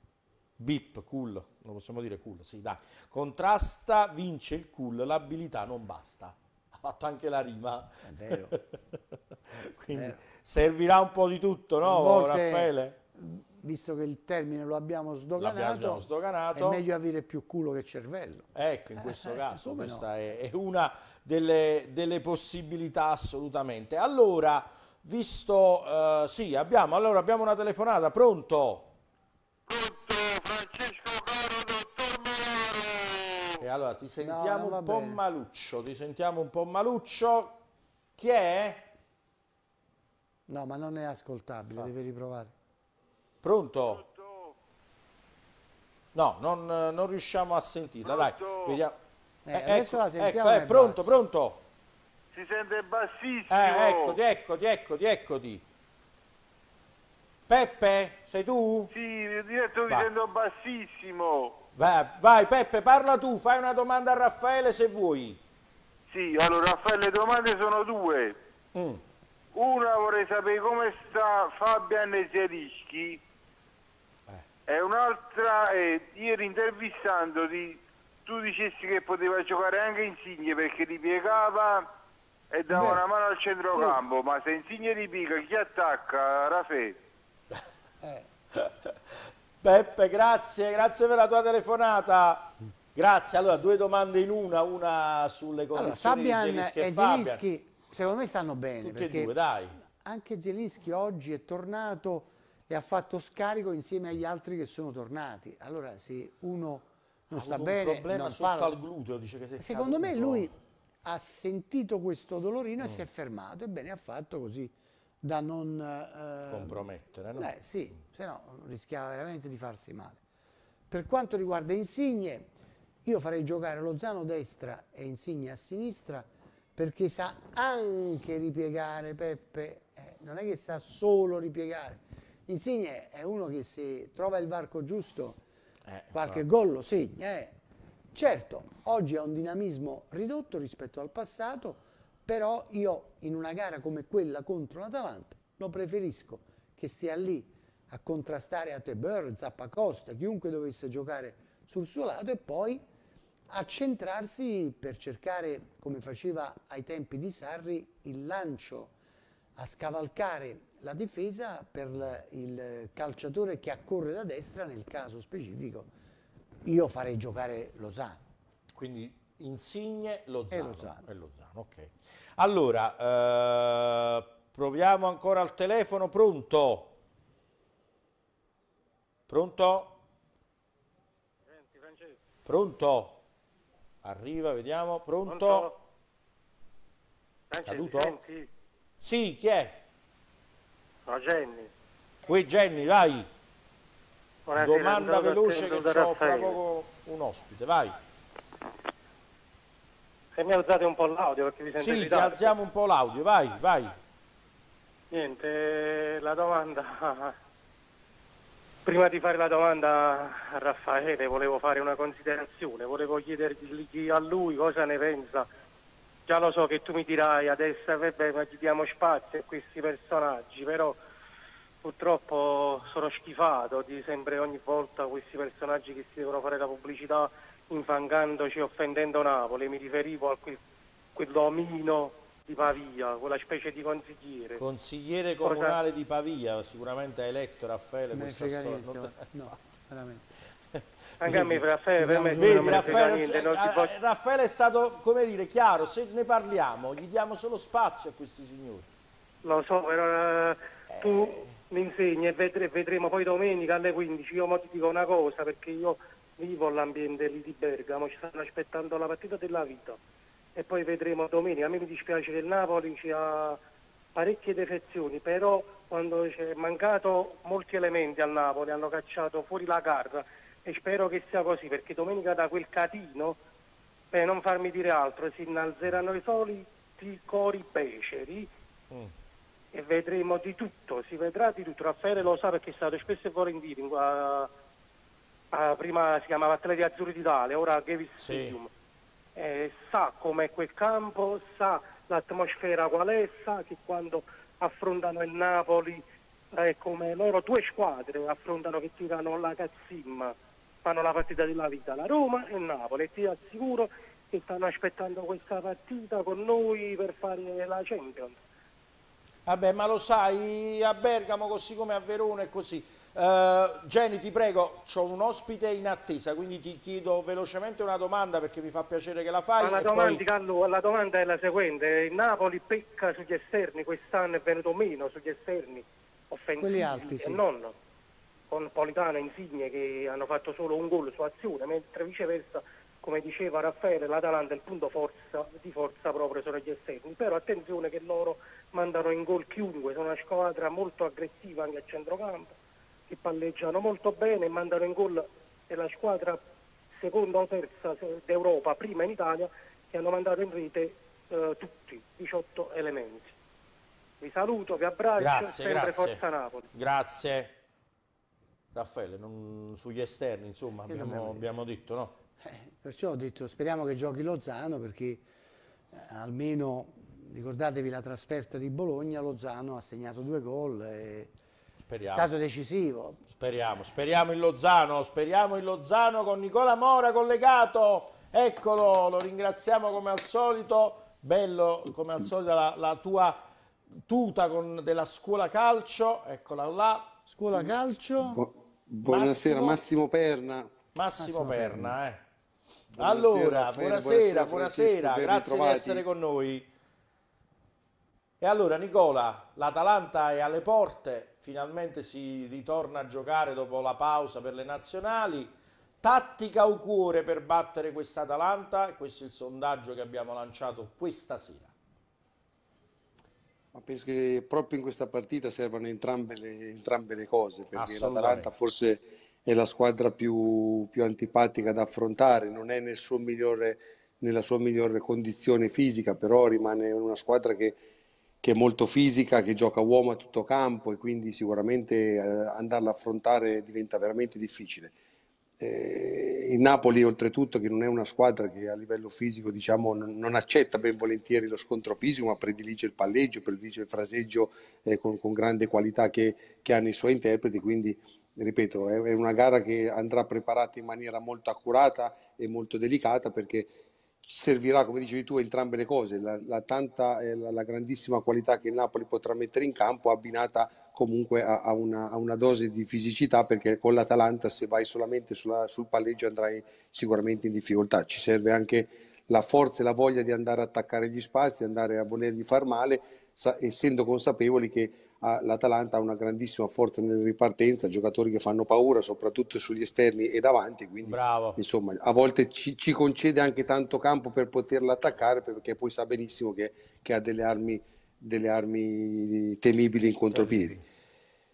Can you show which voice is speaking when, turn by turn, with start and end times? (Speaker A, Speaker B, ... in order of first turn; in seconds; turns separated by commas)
Speaker A: 0.6-8.9, Speaker B: 8.0-8.6, Speaker A: 9.5-13.0, Speaker B: 11.8-20.1, Speaker A: 15.4-16.8, Speaker A: 18.6-28.9, Speaker C: 29.7-33.6, Speaker A: 33.6-37.6, Speaker B: 34.2-35.2, Speaker A: 38.2-38.9, Speaker B: 40.5-42.5, Speaker A: 43.4-44.0, Speaker C: 43.8-44.5, Speaker A: 46.1-49.0, Speaker C: 48.0-48.8, Speaker B: 49.5-51.1, Speaker A: 49.5-51.6, Speaker C: 52.3-54.2, Speaker A: 53.5-55.6, Speaker A: 57.5-58.9, Speaker C: 58.9-61.6, Speaker A: 61.8-65.4, Speaker C: 66.1-68.4, Speaker A: 68.8-69.0, Speaker C: 69.5-73.2, Speaker C: 74.7-81.9, Speaker C: 82.5-87.0, Speaker B: 82.7-83.0, Speaker B: 83.7-84.0, Speaker B: 88.0-88.3, Speaker A: 88.5-88.9, Speaker A: 89.6-97.4, Speaker B: 95.7-108.8, Speaker A: 98.8-99.8, Speaker A: 107.3-110.5, Speaker B: 109.6-110.5, Speaker B: 111.0-116.8, Speaker A: 116.5-117.5, Speaker B: 117.4-120.2, Speaker B: 120.9-122.5, Speaker B: 123.0-135.4, Speaker A: 135.9-136.4, Speaker B: 136.1-137.6, Speaker B: 138.1-152.8, Speaker B: 153.5-158.9, Speaker B: 159.6-165.9, Speaker B: 166.7-168.2, Speaker A: 168.7-176.9, Speaker B: 170.5-171.1, Speaker A: 179.3-180.0, Speaker D: 181.5-182.2, Speaker A: 182.5-183.2, Speaker A: 184.0-185.7, Speaker D: 185.3-185.8, Speaker D: 187.5-188.5, Speaker A: 187.7-188.2, Speaker A: 189.0-189.8, Speaker D: 191.1-191.7, Speaker A: 192.3-193.3, Speaker D: 194.5-196.6, Speaker A: 194.5-198.0, Speaker D: 200.3-202.5, Speaker A: 201.8-203.9, Speaker D: 205.1-207.4, Speaker D: 208.8-215.5, Speaker D: 216.3-221.0, Speaker D: 221.8-230.6, Speaker D: 231.2-234.6, Speaker A: 234.6-239.6, Speaker D: 235.4-235.8, Speaker B: 238.1-240.3, Speaker D: 241.2-243.9, Speaker A: 241.2-241.7, Speaker B: 242.0-243.0, Speaker A: 242.3-248.9, Speaker D: 249.4-260.0, Speaker A: 250.9-251.5, Speaker D: 260.6-263.6, Speaker D: 264.1-273.4, Speaker D: 274.1-278.5, Speaker D: 279.7-284.5, Speaker D: 285.5-288.7, Speaker A: 288.2-288.6, Speaker D: 289.4-308.4, Speaker A: 309.5-320.2, Speaker D: 319.6-327.8, Speaker B: 326.6-327.4, Speaker D: 328.5-342.5, Speaker D: 343.1-346.4, Speaker D: 347.0-353.4, Speaker D: 354.2-356.7, Speaker A: 355.2-356.2, Speaker A: 356.7-357.5, Speaker A: 358.7-362.2, Speaker B: 360.9-361.5, Speaker B: 362.4-365.2, Speaker B: 365.9-371.3, Speaker A: 371.9-372.3, Speaker B: 372.1-373.2, Speaker A: 373.3-383.4, Speaker A: 384.1-387.2, Speaker B: 387.3-388.4, Speaker E: 388.2-390.7, Speaker A: 389.1-389.8, Speaker A: 390.9-392.2, Speaker B: 391.2-392.0, Speaker E: 392.9-396.0, Speaker A: 393.0-396.7, Speaker A: 398.4-411.7, Speaker E: 413.7-427.8, Speaker A: 417.8-418.5, Speaker E: 428.4-434.9, Speaker E: 435.6-453.7, Speaker E: 454.2-490.8, Speaker A: 481.0-481.6, Speaker A: 490.3-490.8